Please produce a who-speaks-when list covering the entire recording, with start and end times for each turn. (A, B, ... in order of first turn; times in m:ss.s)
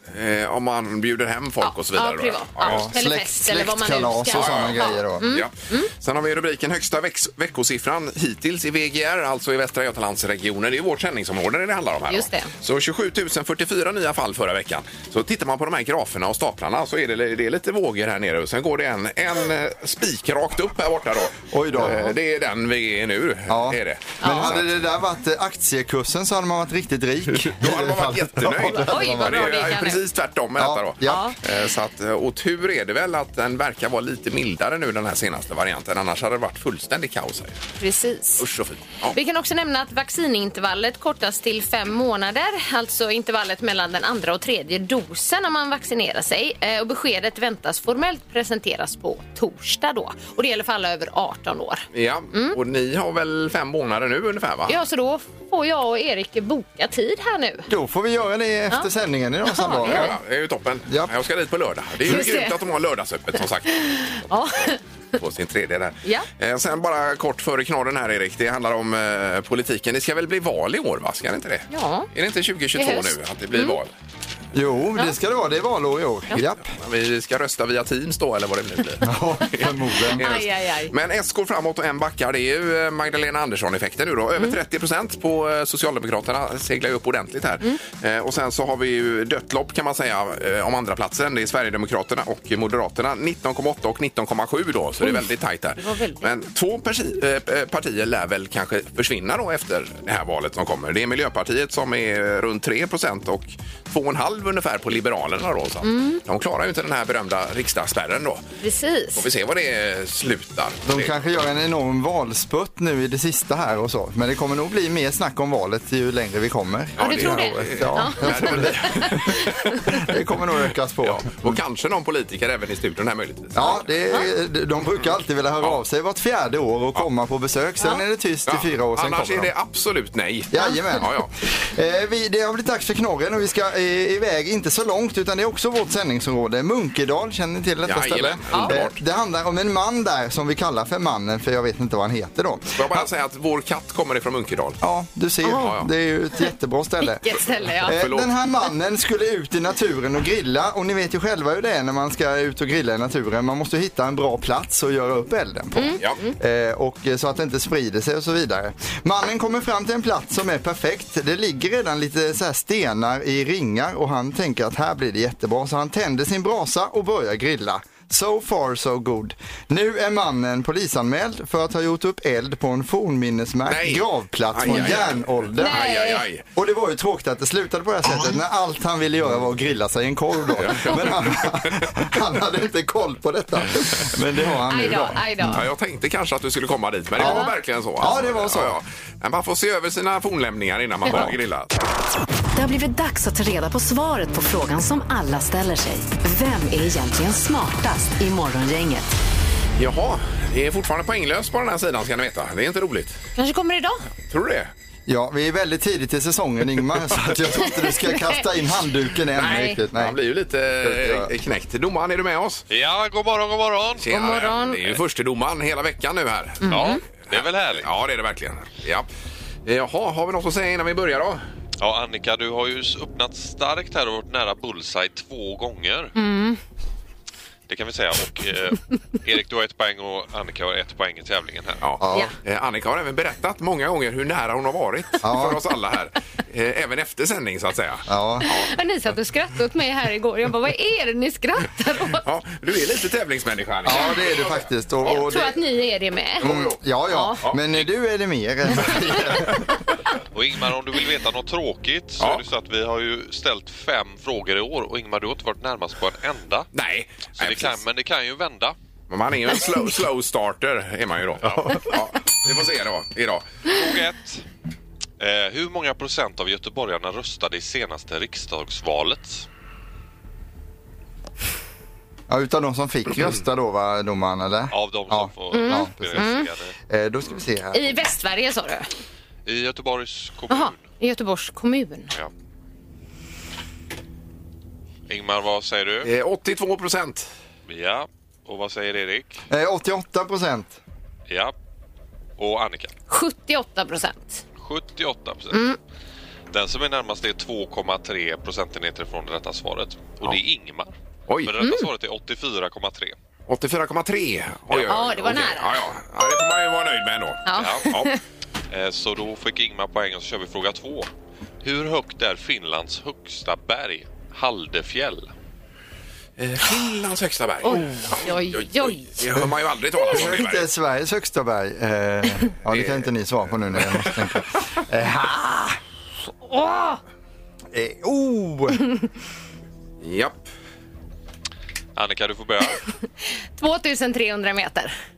0:00.1-0:02.9 A
0:01.6-0:05.9 B
0:02.6-0:05.4 C
0:04.3-0:24.7 A
0:12.1-0:12.5 B
0:21.5-0:22.0 C
0:21.9-0:22.1 B
0:23.5-0:29.6 C
0:24.2-0:24.5 B
0:27.3-0:37.6 A
0:28.7-0:30.0 B
0:30.6-0:31.2 C
0:31.0-0:31.4 B
0:37.8-0:38.4 B
0:38.4-0:39.2 A
0:39.1-0:52.6 B
0:51.9-0:54.8 A
0:54.7-0:57.7 B
0:57.7-1:00.1 C
0:59.4-1:00.1 B
0:59.8-1:03.7 A
1:02.1-1:02.6 B
1:03.7-1:04.8 B
1:05.2-1:13.9 A
1:11.7-1:12.1 B
1:12.8-1:13.8 B
1:14.5-1:16.7 C
1:16.5-1:48.4 A
1:19.0-1:20.2 C
1:20.2-1:20.9 B
1:35.0-1:36.3 B
1:45.8-1:46.2 B
1:48.6-1:49.2 B
1:49.2-1:51.2 A
1:50.9-2:01.6 C
1:57.0-1:59.6 A
1:57.0-2:00.0 B
2:01.0-2:03.6 A
2:03.6-2:09.5 C
2:03.6-2:04.3 B
2:08.5-2:11.3 A
2:10.5-2:23.1 C
2:17.8-2:19.0 A
2:18.5-2:18.8 B
2:22.8-2:24.8 A
2:24.8-2:27.3 C
2:25.4-2:25.7 B
2:25.5-2:25.9 A
2:27.0-2:28.0 B
2:27.8-2:55.9 C
2:27.9-2:28.3 A
2:35.8-2:36.4 B
2:53.7-2:56.4 A
2:54.7-2:55.0 B
2:55.6-2:56.2 B
2:56.6-3:05.2 C
3:00.5-3:01.9 A
3:04.7-3:05.6 B
3:05.4-3:11.7 A
3:07.2-3:08.8 C
3:07.2-3:07.5 B
3:12.6-3:19.1 D
3:19.8-3:23.2 A
3:23.4-3:24.0 B
3:24.3-3:24.7 A
3:25.1-3:30.2 C
3:27.6-3:28.5 B
3:29.4-3:29.8 B
3:29.4-3:32.6 A
3:30.8-3:31.3 C
3:32.7-3:34.1 E
3:34.0-3:39.1 A
3:34.1-3:35.0 B
3:36.6-3:37.0 B
3:36.7-3:37.9 E
3:39.7-3:41.4 A
3:41.8-3:46.1 E
3:46.2-3:46.6 B
3:47.7-3:51.8 E
3:51.8-3:58.7 A
3:52.0-3:52.3 C
3:55.2-3:55.6 C
3:58.1-3:58.5 C
3:58.4-4:02.2 B
4:02.2-4:04.6 A
4:03.8-4:05.5 C
4:03.9-4:04.2 B
4:05.0-4:06.5 B
4:06.4-4:06.8 A
4:06.4-4:09.6 C
4:07.1-4:07.4 B
4:10.3-4:16.7 E
4:16.7-4:17.8 A
4:17.4-4:18.8 E
4:19.1-4:23.4 A
4:21.4-4:21.9 E
4:23.7-4:24.4 E
4:25.2-4:29.5 E
4:32.3-4:36.3 C
4:34.7-4:36.8 E
4:35.5-4:36.5 B
4:36.9-4:37.9 C
4:37.7-4:38.9 B
4:39.5-4:40.8 E
4:40.5-4:42.1 B
4:45.1-4:46.1 E
4:46.0-4:47.3 A
4:47.7-4:49.4 E
4:49.5-4:50.8 C
4:51.3-4:51.5 E
4:52.4-4:52.9 E
4:53.1-4:54.4 B
4:54.6-4:55.6 E
4:55.5-4:55.8 B
4:56.5-5:00.9 E
5:01.4-5:03.2 E
5:01.6-5:01.9 B
5:03.5-5:08.1 A
5:04.7-5:05.0 E
5:04.9-5:06.4 B
5:07.5-5:08.2 B
5:07.6-5:08.0 E
5:08.7-5:11.1 E
5:11.6-5:15.3 E
5:16.4-5:20.7 A
5:17.6-5:19.1 B
5:20.1-5:25.8 C
5:22.7-5:23.1 A
5:23.8-5:24.2 A
5:26.5-5:27.0 B
5:27.7-5:28.8 C
5:30.0-5:30.4 A
5:32.0-5:32.8 E
5:32.9-5:35.0 B